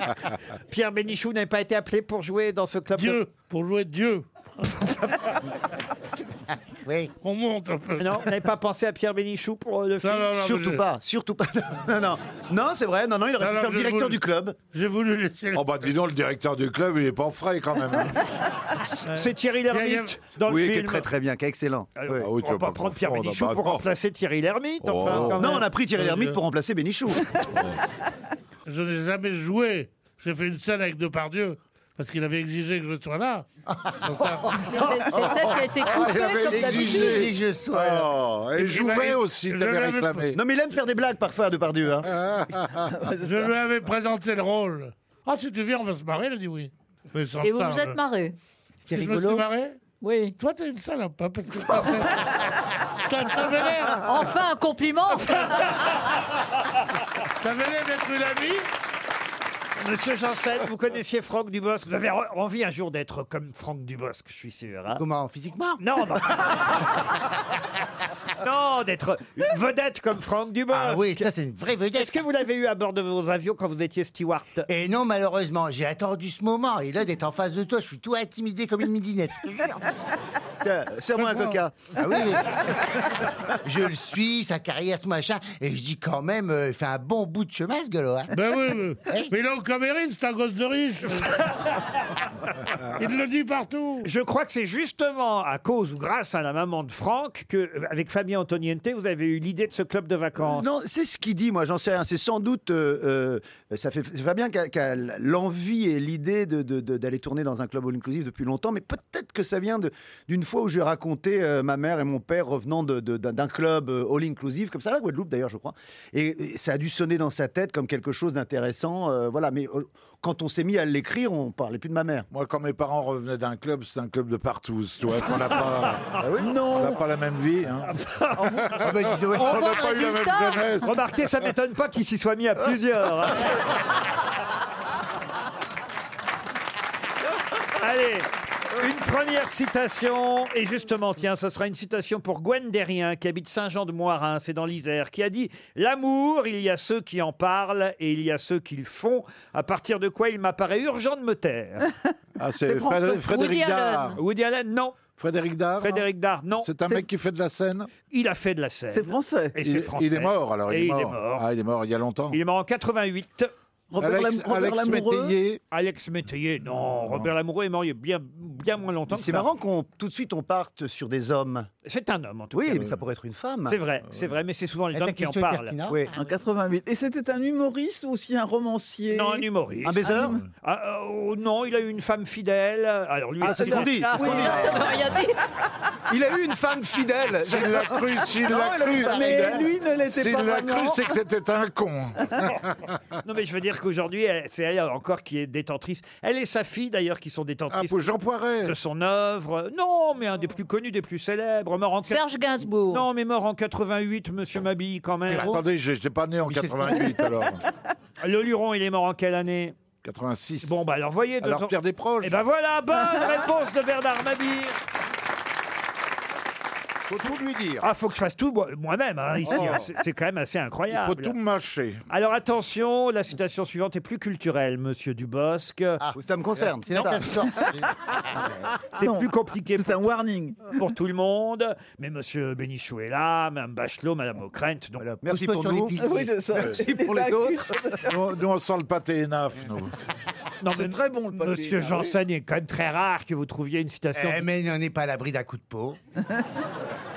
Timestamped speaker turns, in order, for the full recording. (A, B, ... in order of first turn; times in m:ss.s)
0:00.7-0:03.2 A
0:03.0-0:04.9 B
0:06.8-0:07.1 C
0:07.2-0:08.2 B
0:08.0-0:10.3 A
0:10.0-0:10.8 B
0:10.3-0:14.6 D
0:13.4-0:14.2 B
0:14.7-0:15.7 B
0:15.5-0:18.2 E
0:19.1-0:21.1 A
0:19.1-0:20.1 B
0:20.5-0:22.2 D
0:22.0-0:25.6 A
0:22.1-0:23.8 E
0:24.8-0:26.3 E
0:25.0-0:27.2 D
0:28.7-0:33.4 B
0:34.0-0:34.6 B
0:34.7-0:37.2 F
0:35.1-0:40.4 E
0:36.4-0:37.8 C
0:38.6-0:40.3 B
0:40.3-0:42.1 D
0:42.1-0:42.9 E
0:43.1-0:48.0 B
0:47.4-0:48.3 F
0:48.8-0:49.8 B
0:50.0-0:50.3 F
0:50.4-0:54.0 B
0:54.0-0:55.7 F
0:57.4-0:58.6 B
0:59.8-1:05.0 A
1:05.0-1:05.8 C
1:05.8-1:06.7 A
1:08.4-1:11.3 A
1:10.7-1:12.2 C
1:11.9-1:14.7 A
1:14.7-1:19.6 C
1:20.6-1:22.3 D
1:22.1-1:22.4 C
1:23.6-1:28.3 C
1:28.3-1:31.5 B
1:32.9-1:34.1 B
1:34.0-1:40.7 A
1:40.4-2:02.3 D
2:02.3-2:06.0 E
2:06.2-2:06.5 D
2:06.4-2:07.0 G
2:06.7-2:07.9 E
2:08.1-2:08.4 A
2:08.5-2:11.5 E
2:08.8-2:09.5 D
2:09.5-2:10.6 F
2:10.8-2:13.5 A
2:17.8-2:31.9 A
2:32.4-2:34.2 E
2:33.1-2:34.2 F
2:34.2-2:35.0 A
2:35.2-2:36.1 E
2:35.8-2:37.0 A
2:36.6-2:37.9 E
2:38.1-2:41.4 A
2:38.9-2:39.5 G
2:39.6-2:42.4 E
2:42.3-2:43.5 A
2:43.9-2:45.3 G
2:44.0-2:45.6 E
2:45.7-2:49.5 A
2:46.9-2:47.3 E
2:49.1-2:51.7 D
2:51.8-2:53.0 A
2:52.5-2:53.8 D
2:53.7-2:55.8 A
2:54.9-2:56.0 C
2:55.9-2:59.5 G
2:59.1-3:04.8 A
2:59.8-3:00.4 D
3:00.1-3:00.4 G
3:03.4-3:04.8 D
3:03.4-3:04.8 G
3:04.4-3:05.3 F
3:06.9-3:11.0 G
3:07.4-3:12.9 E
3:09.0-3:09.5 D
3:13.2-3:18.1 A
3:17.7-3:18.7 E
3:18.6-3:22.2 A
3:22.0-3:23.0 F
3:22.9-3:25.6 A
3:25.2-3:27.6 E
3:28.2-3:29.7 A
3:30.0-3:30.8 E
3:30.6-3:34.8 A
3:31.4-3:32.4 E
3:37.1-3:37.9 E
3:37.8-3:41.4 A
3:39.4-3:39.9 E
3:40.9-3:42.0 E
3:42.1-3:46.0 A
3:46.1-3:47.5 D
3:46.9-3:47.8 G
3:48.9-3:50.7 G
3:49.0-3:50.1 A
3:50.6-3:55.1 A
3:55.0-3:56.3 C
3:55.2-3:57.6 D
3:56.0-3:58.2 G
3:58.1-3:59.9 E
4:00.6-4:04.5 A
4:00.8-4:02.0 G
4:04.1-4:06.0 C